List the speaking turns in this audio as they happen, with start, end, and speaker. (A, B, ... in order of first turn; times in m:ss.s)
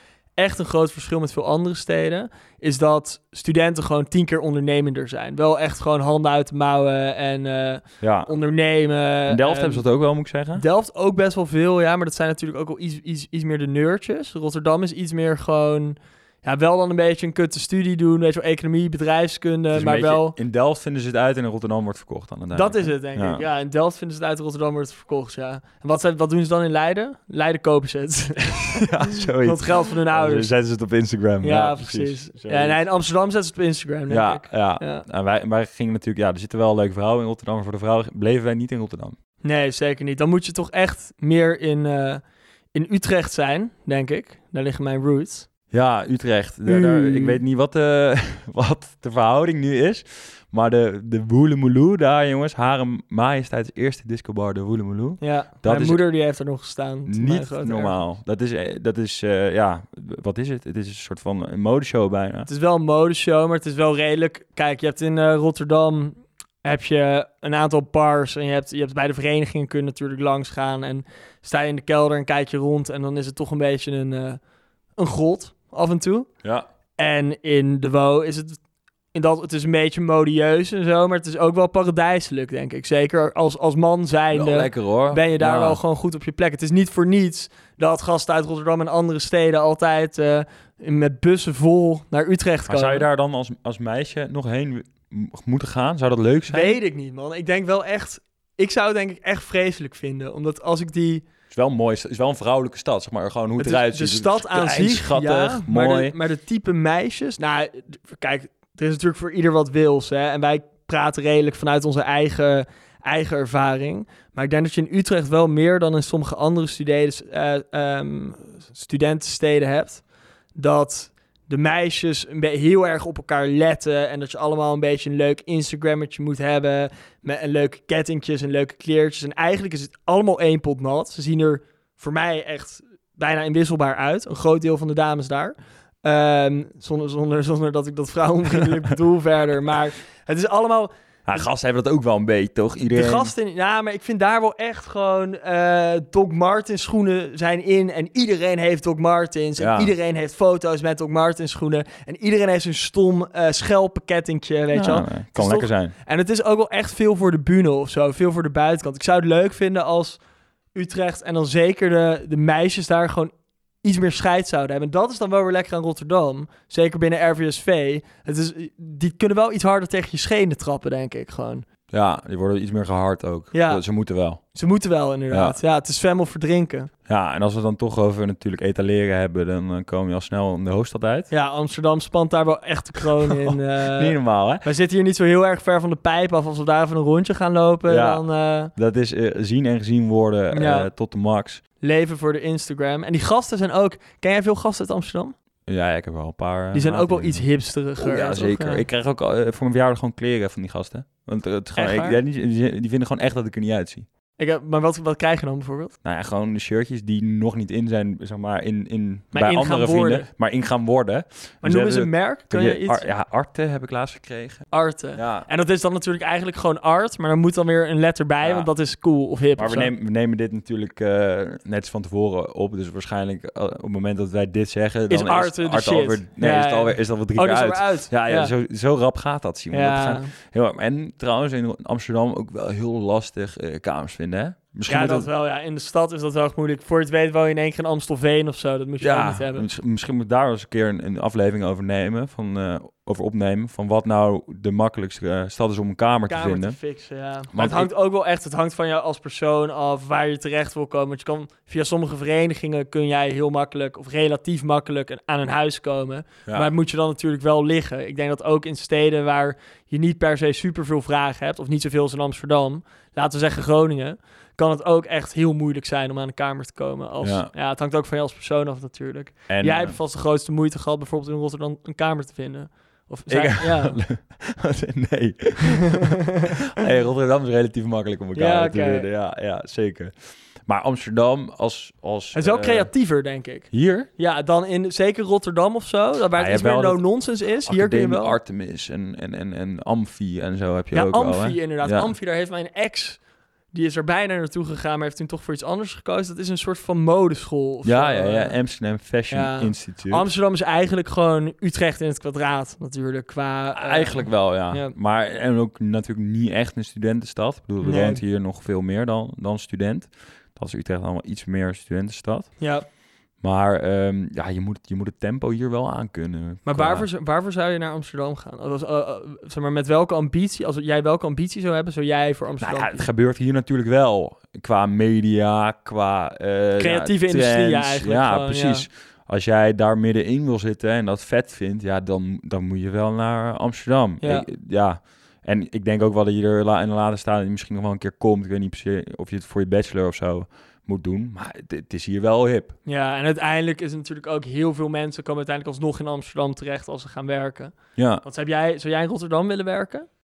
0:00.4-0:09.8 A
0:08.0-0:08.3 B
0:09.3-0:10.6 B
0:10.5-0:20.4 A
0:19.7-0:23.4 B
0:22.5-0:28.9 A
0:28.6-0:32.8 B
0:29.4-0:30.5 A
0:31.4-0:35.0 A
0:34.1-0:39.2 B
0:39.4-0:42.2 A
0:42.7-0:45.5 A
0:45.7-0:56.0 B
0:46.6-0:47.4 A
0:55.2-0:58.0 A
0:57.0-1:02.5 B
1:02.4-1:14.4 A
1:15.0-1:16.3 A
1:17.0-1:18.6 A
1:19.1-1:33.0 A
1:24.3-1:25.8 B
1:32.7-1:36.8 B
1:36.5-1:41.2 A
1:41.5-1:46.1 B
1:43.6-2:00.0 A
2:00.5-2:21.4 A
2:21.2-2:23.3 B
2:22.9-2:40.2 A
2:29.6-2:29.9 B
2:34.7-2:35.9 B
2:40.7-2:51.6 A
2:51.9-2:54.4 B
2:53.5-2:53.8 A
2:54.5-2:56.9 A
2:55.3-2:55.6 B
2:57.1-3:01.3 B
3:01.3-3:08.7 A
3:03.3-3:04.6 B
3:07.9-3:08.2 B
3:08.7-3:11.6 B
3:10.5-3:10.9 A
3:11.8-3:15.3 A
3:15.7-3:17.4 B
3:16.7-3:18.8 A
3:18.0-3:24.0 B
3:21.7-3:22.2 A
3:24.4-3:25.9 A
3:26.0-3:35.5 B
3:29.3-3:30.3 A
3:31.6-3:33.1 A
3:34.7-3:39.9 A
3:38.4-3:38.7 B
3:39.6-3:55.3 B
3:45.1-3:48.5 A
3:49.7-3:50.3 A
3:54.9-3:59.7 A
3:59.0-4:06.8 B
4:06.3-4:34.0 A
4:07.5-4:07.9 B
4:16.4-4:16.7 B
4:27.2-4:27.5 B
4:29.5-4:30.0 B
4:33.3-4:42.9 B
4:38.3-4:39.1 A
4:42.3-4:48.4 A
4:43.7-4:44.1 B
4:46.4-4:52.1 B
4:50.9-4:58.6 A
4:57.8-5:00.3 B
4:59.3-5:04.9 A
5:03.7-5:12.7 B
5:07.8-5:08.2 A
5:12.6-5:12.8 A
5:13.4-5:17.1 B
5:16.6-5:23.0 A
5:22.6-5:42.8 B
5:26.8-5:28.9 A
5:34.2-5:34.5 A
5:42.8-5:50.1 A
5:48.0-5:48.2 B